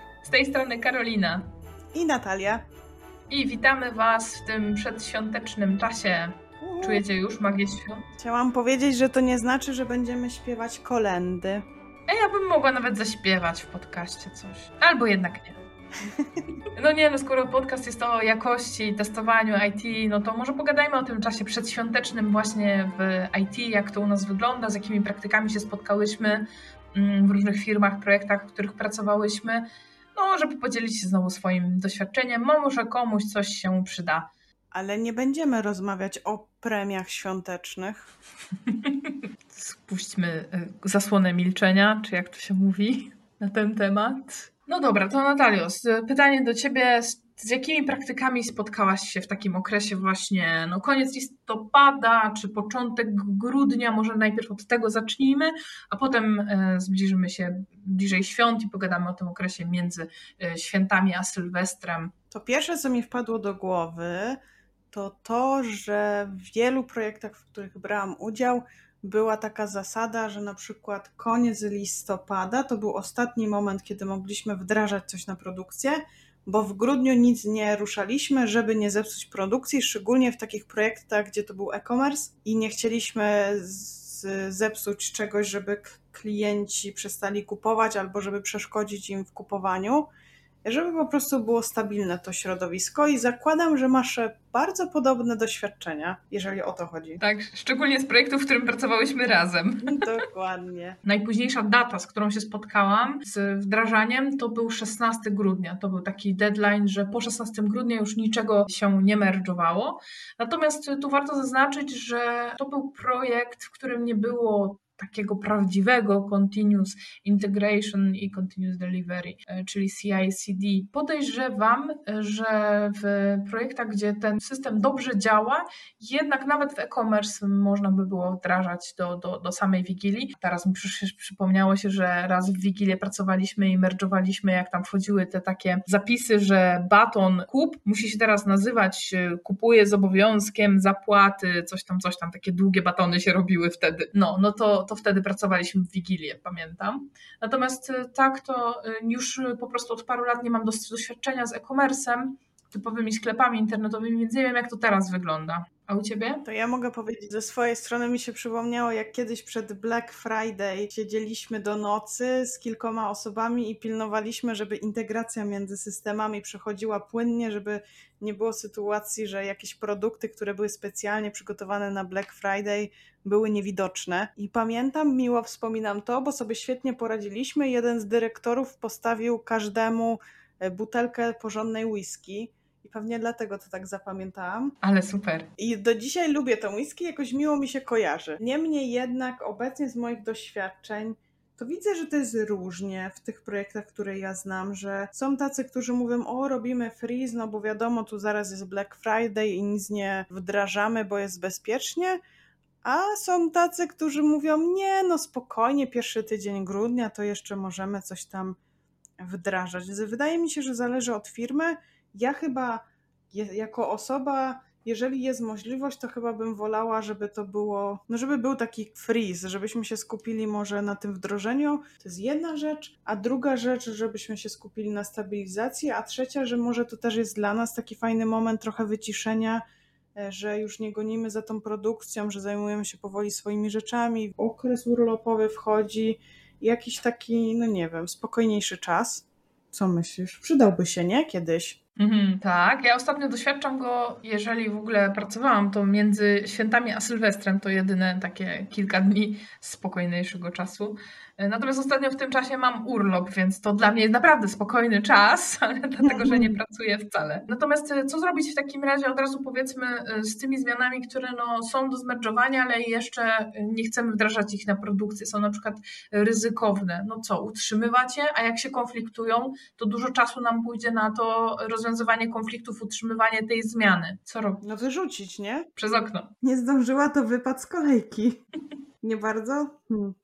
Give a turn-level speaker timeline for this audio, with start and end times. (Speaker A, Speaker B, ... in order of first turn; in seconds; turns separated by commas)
Speaker A: 0.2-1.4, Speaker B: 1.9-2.6, Speaker A: 3.3-8.0, Speaker B: 6.6-7.0, Speaker B: 8.1-11.6, Speaker A: 12.1-15.6, Speaker B: 16.0-16.4, Speaker A: 16.8-29.6, Speaker A: 30.1-34.3, Speaker B: 34.7-38.1, Speaker A: 38.6-62.1, Speaker B: 62.3-64.4, Speaker B: 64.9-90.0, Speaker B: 90.6-97.2, Speaker A: 97.2-100.0, Speaker B: 99.8-101.0, Speaker A: 101.0-156.4, Speaker B: 156.4-184.7, Speaker A: 184.8-185.5, Speaker B: 185.6-202.2, Speaker B: 202.8-208.6, Speaker B: 209.2-229.6, Speaker B: 230.2-241.8, Speaker A: 242.0-274.6, Speaker B: 256.0-256.6, Speaker B: 274.6-275.7, Speaker A: 275.8-276.3, Speaker B: 276.4-278.4, Speaker B: 279.0-280.1